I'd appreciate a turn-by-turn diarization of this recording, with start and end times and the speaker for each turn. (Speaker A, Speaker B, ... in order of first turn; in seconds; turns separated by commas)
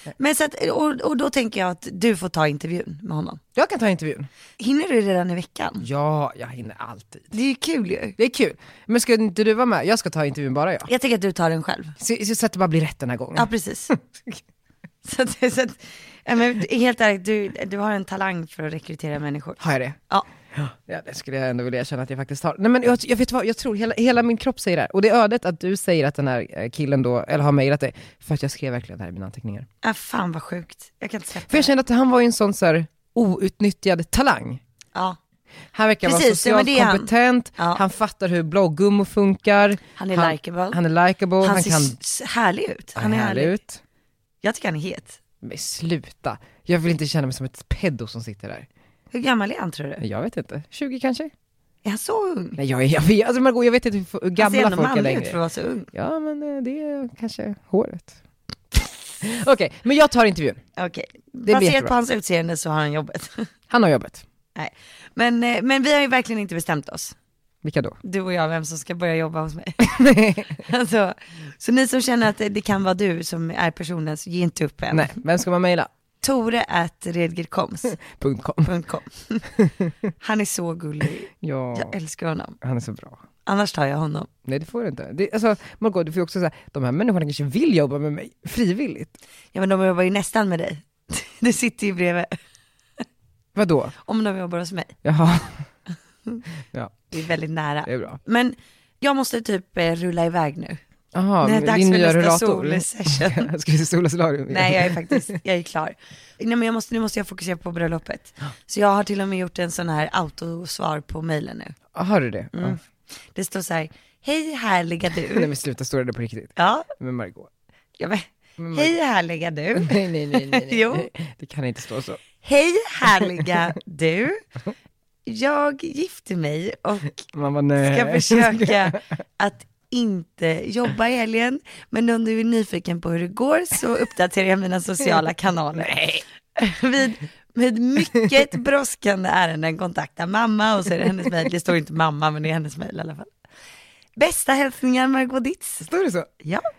Speaker A: 0.2-3.4, Speaker B: 3.6-4.3, Speaker A: 4.6-5.8, Speaker B: 5.8-7.3, Speaker A: 7.3-8.2, Speaker B: 8.2-10.9, Speaker A: 10.9-12.0, Speaker B: 12.0-14.4, Speaker A: 13.3-13.9, Speaker A: 15.0-19.6, Speaker B: 19.6-20.0, Speaker B: 20.5-29.7, Speaker A: 29.8-31.7, Speaker B: 31.5-34.6, Speaker B: 35.7-42.0, Speaker A: 36.0-37.8, Speaker A: 40.0-40.8, Speaker A: 41.4-43.6, Speaker B: 43.0-43.8, Speaker A: 44.4-45.2, Speaker B: 45.4-48.7, Speaker A: 49.1-50.0, Speaker B: 50.0-51.3, Speaker A: 51.8-52.6, Speaker B: 52.6-55.4, Speaker A: 54.4-55.9, Speaker B: 55.9-58.2, Speaker B: 59.2-60.6, Speaker A: 60.8-63.5, Speaker B: 61.5-61.9, Speaker B: 63.7-64.2, Speaker A: 64.5-67.2, Speaker B: 67.6-68.0, Speaker A: 68.0-75.2, Speaker B: 69.8-70.6, Speaker B: 74.9-75.9, Speaker A: 76.2-78.0, Speaker B: 78.0-78.7, Speaker A: 78.7-79.5, Speaker B: 79.6-79.9, Speaker A: 80.2-82.6, Speaker B: 81.4-82.0, Speaker B: 82.6-83.2, Speaker A: 83.5-84.3, Speaker B: 84.5-89.2, Speaker A: 89.5-92.3, Speaker B: 93.5-94.0, Speaker A: 94.0-95.0, Speaker B: 95.0-95.7, Speaker A: 97.1-100.8, Speaker B: 97.9-98.2, Speaker B: 101.1-105.4, Speaker A: 101.4-103.5, Speaker A: 104.5-111.8, Speaker B: 111.9-112.8, Speaker A: 112.5-112.8, Speaker A: 113.3-115.5, Speaker B: 115.3-117.5, Speaker A: 116.6-116.9, Speaker A: 118.0-121.1, Speaker B: 118.6-119.0, Speaker B: 119.8-122.2, Speaker A: 122.4-124.4, Speaker A: 125.2-143.3, Speaker B: 127.3-129.0, Speaker A: 144.2-145.9, Speaker B: 145.8-146.3, Speaker A: 146.4-146.7